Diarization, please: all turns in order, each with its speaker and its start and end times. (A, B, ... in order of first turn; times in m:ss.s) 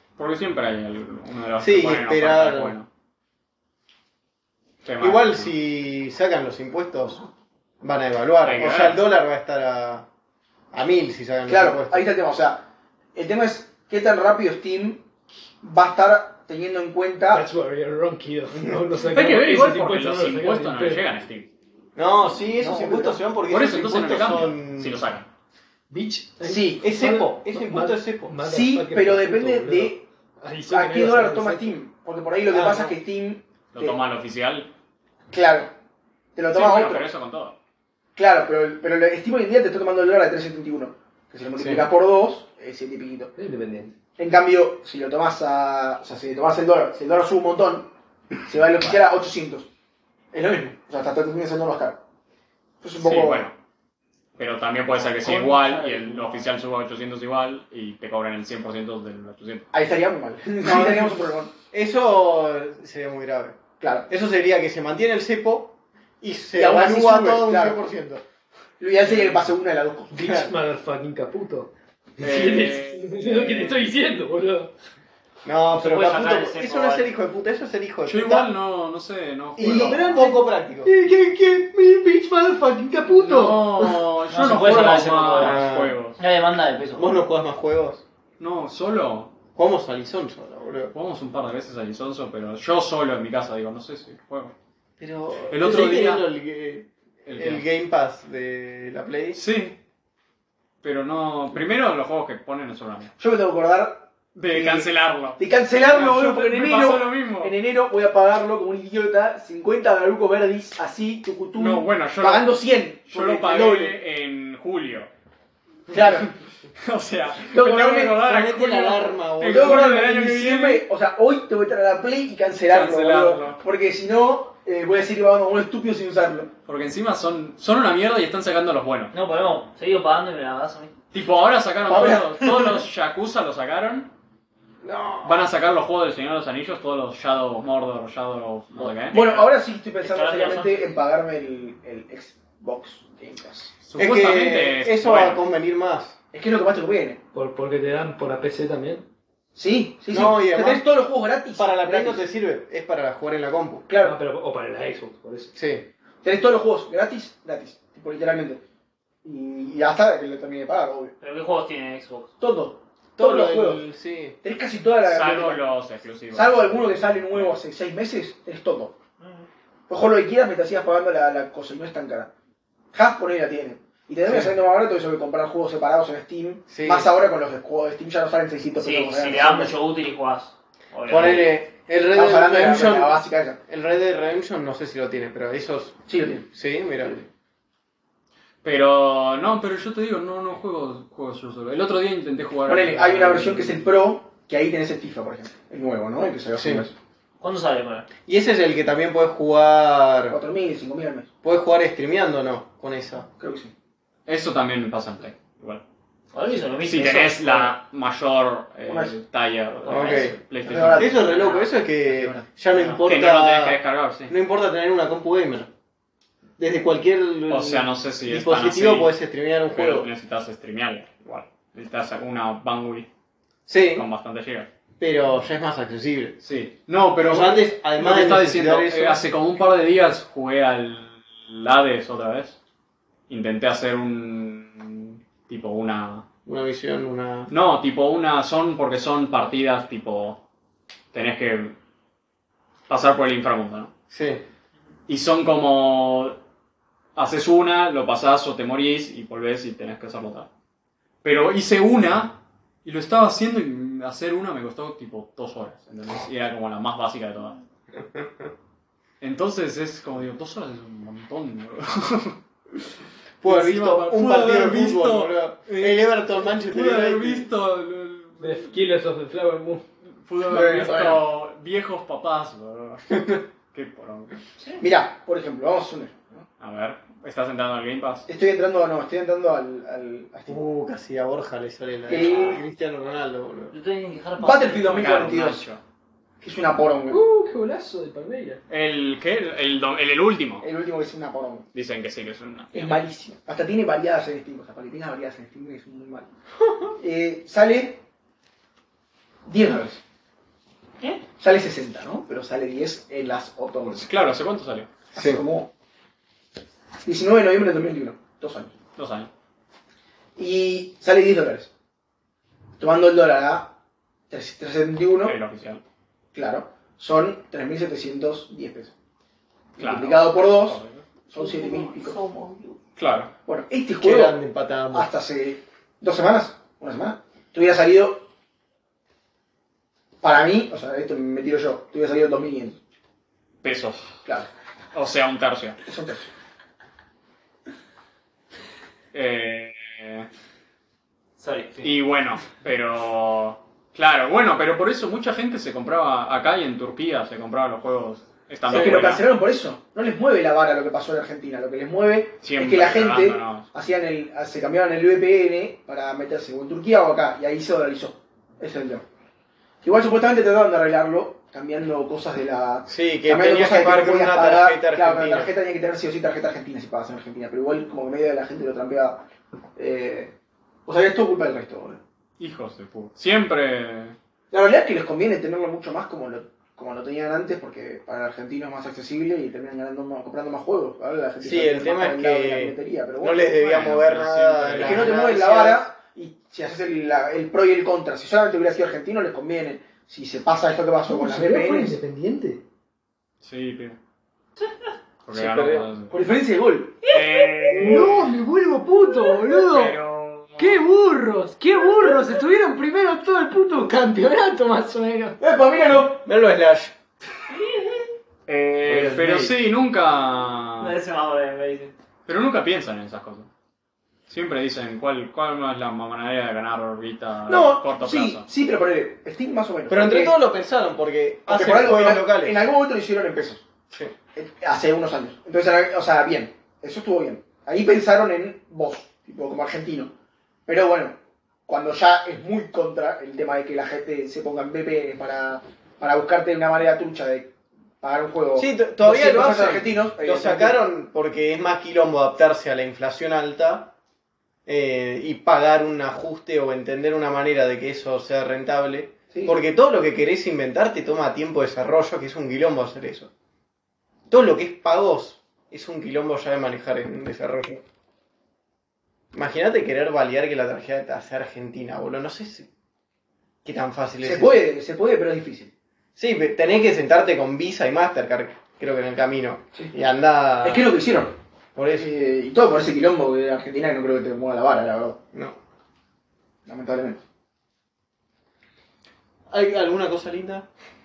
0:00.2-0:02.9 A
0:01.6-0:02.8 B
0:04.8-0:05.5 A
0:05.0-0:07.2 B
0:07.8-0:10.1 B
0:08.4-0:09.0 A
0:10.7-0:12.1 B
0:11.5-0:15.0 C
0:15.6-0:17.4 C
0:17.3-0:21.0 D
0:19.0-0:21.5 A
0:22.0-0:25.0 B
0:22.6-0:23.2 C
0:23.4-0:25.3 A
0:25.9-0:31.7 D
0:26.4-0:26.8 C
0:26.8-0:28.4 B
0:28.4-0:30.0 C
0:30.7-0:34.0 C
0:32.5-0:32.9 B
0:33.7-0:34.7 A
0:35.3-0:35.7 C
0:36.4-0:37.1 C
0:36.5-0:37.6 A
0:38.2-0:43.3 C
0:41.6-0:41.9 B
0:43.4-0:43.9 D
0:44.2-0:47.9 C
0:48.5-0:49.7 C
0:50.3-0:52.0 C
0:52.8-0:53.5 C
0:53.0-0:53.5 A
0:54.4-0:59.7 A
0:55.2-0:56.2 B
0:59.7-1:01.5 C
1:00.6-1:08.2 B
1:03.8-1:04.1 C
1:06.6-1:07.8 C
1:08.8-1:10.5 C
1:09.0-1:09.4 A
1:10.1-1:14.7 D
1:12.2-1:13.9 A
1:15.4-1:18.5 B
1:15.8-1:17.1 E
1:18.0-1:20.3 A
1:19.6-1:20.9 B
1:19.6-1:20.2 C
1:19.9-1:24.1 D
1:23.1-1:26.2 A
1:24.3-1:25.6 E
1:25.4-1:26.0 B
1:26.2-1:27.2 E
1:27.0-1:28.0 B
1:28.4-1:29.3 A
1:29.6-1:30.9 B
1:30.9-1:34.5 A
1:35.0-1:39.4 B
1:35.5-1:36.2 A
1:37.3-1:37.6 A
1:39.3-1:39.8 A
1:40.8-1:43.1 A
1:43.2-1:54.0 C
1:44.4-1:47.6 A
1:51.6-1:55.1 A
1:55.9-1:56.3 C
1:55.9-1:56.2 A
1:56.8-2:00.8 A
1:57.5-1:58.2 C
1:58.2-2:00.1 B
1:59.4-2:06.5 C
2:02.7-2:03.6 A
2:06.7-2:09.1 A
2:09.1-2:10.9 E
2:11.1-2:14.1 A
2:11.9-2:12.8 C
2:14.8-2:15.3 B
2:15.2-2:19.5 A
2:19.1-2:23.7 C
2:20.0-2:20.9 E
2:23.8-2:25.4 A
2:24.0-2:26.2 B
2:26.3-2:27.2 C
2:27.3-2:29.0 D
2:29.6-2:32.2 C
2:30.1-2:30.8 B
2:31.6-2:33.8 B
2:33.9-2:34.2 C
2:34.0-2:35.5 D
2:35.5-2:35.9 B
2:36.2-2:38.6 C
2:39.2-2:41.2 C
2:41.2-2:42.3 E
2:42.4-2:43.8 C
2:43.2-2:44.4 B
2:44.4-2:45.6 C
2:45.0-2:47.6 A
2:46.3-2:49.0 C
2:49.2-2:49.5 E
2:49.9-2:52.3 C
2:52.9-2:59.8 C
2:54.2-2:54.5 B
2:56.7-2:57.1 B
2:58.8-3:01.5 E
3:01.1-3:06.0 B
3:02.1-3:03.6 C
3:06.1-3:06.4 C
3:06.5-3:07.3 B
3:08.6-3:13.9 A
3:12.7-3:16.9 C
3:16.5-3:16.9 B
3:17.4-3:18.1 E
3:18.2-3:20.4 B
3:20.3-3:21.3 C
3:21.4-3:23.3 B
3:23.4-3:23.7 C
3:24.3-3:25.8 A
3:26.3-3:27.7 E
3:26.8-3:31.2 A
3:28.9-3:29.1 C
3:29.9-3:30.3 B
3:29.9-3:30.4 E
3:30.6-3:32.4 C
3:31.0-3:35.7 B
3:31.3-3:31.7 E
3:32.7-3:34.3 A
3:36.6-3:40.1 B
3:37.5-3:39.1 A
3:39.7-3:43.1 A
3:43.7-3:44.1 B
3:43.9-3:44.7 A
3:45.0-3:46.4 B
3:46.4-3:52.6 A
3:47.2-3:49.2 B
3:53.3-3:56.3 A
3:56.5-3:57.5 B
3:57.5-4:00.4 A
4:01.1-4:01.8 A
4:02.9-4:03.9 A
4:04.1-4:04.4 B
4:05.1-4:06.4 A
4:07.2-4:10.5 A
4:11.2-4:17.6 A
4:19.2-4:22.4 A
4:23.4-4:27.5 B
4:23.4-4:28.8 A
4:28.4-4:29.8 D
4:30.2-4:33.2 A
4:30.5-4:31.2 B
4:33.1-4:33.4 B
4:33.7-4:34.4 A
4:34.8-4:36.5 C
4:36.6-4:38.3 A
4:38.3-4:40.6 C
4:40.5-4:43.7 B
4:42.1-4:42.6 C
4:42.1-4:42.6 E
4:43.7-4:45.2 E
4:44.4-4:45.6 C
4:44.9-4:45.8 A
4:46.4-4:47.2 C
4:47.1-4:48.6 D
4:48.7-4:50.7 A
4:50.6-4:51.7 C
4:51.7-4:53.0 A
4:52.7-4:56.3 C
4:57.0-4:58.0 C
4:59.5-5:00.0 C
5:01.4-5:04.1 C
5:03.9-5:04.9 A
5:05.1-5:05.4 B
5:05.1-5:05.7 C
5:07.0-5:08.7 C
5:09.0-5:09.3 A
5:10.4-5:11.7 C
5:12.8-5:13.7 C
5:14.3-5:15.4 C
5:15.2-5:15.8 A
5:16.3-5:18.9 C
5:19.8-5:22.2 C
5:19.8-5:21.0 A
5:21.9-5:22.8 E
5:23.0-5:23.3 A
5:23.4-5:24.4 C
5:24.0-5:25.1 B
5:24.9-5:28.2 C
5:30.2-5:32.8 C
5:33.6-5:34.0 A
5:34.9-5:35.8 A
5:35.9-5:36.3 C
5:39.1-5:40.3 A
5:41.4-5:41.9 E
5:41.8-5:49.3 A
5:48.7-5:59.0 C
5:48.7-5:49.0 B
5:52.4-5:53.7 A
5:59.8-6:09.2 C
6:02.9-6:05.5 B
6:09.8-6:10.3 C
6:10.9-6:12.0 C
6:12.4-6:14.2 A
6:14.5-6:23.6 C
6:21.4-6:25.9 B
6:23.6-6:25.3 A
6:24.8-6:32.0 C
6:31.1-6:32.6 D
6:33.4-6:34.0 A
6:35.3-6:36.1 A
6:36.1-6:37.0 C
6:37.1-6:38.3 A
6:37.8-6:40.0 D
6:39.5-6:40.8 A
6:40.6-6:45.4 D
6:45.4-6:46.2 C
6:45.9-6:47.0 B
6:47.5-6:48.0 E
6:48.5-6:51.0 A
6:48.9-6:49.6 B
6:50.8-6:51.9 E
6:52.3-6:53.5 A
6:54.3-6:58.5 A
6:57.5-7:00.4 C
6:59.9-7:02.6 B
7:01.5-7:03.6 C
7:04.4-7:10.1 C
7:10.7-7:20.8 C
7:18.6-7:23.9 B
7:24.7-7:33.3 B
7:34.3-7:37.8 B
7:39.3-7:42.7 B
7:43.6-7:44.6 B
7:44.2-7:45.7 C
7:46.2-7:50.9 B
7:50.6-7:51.4 C
7:51.8-7:52.1 B
7:52.0-7:55.2 C
7:56.7-7:57.2 C
7:59.5-8:00.7 B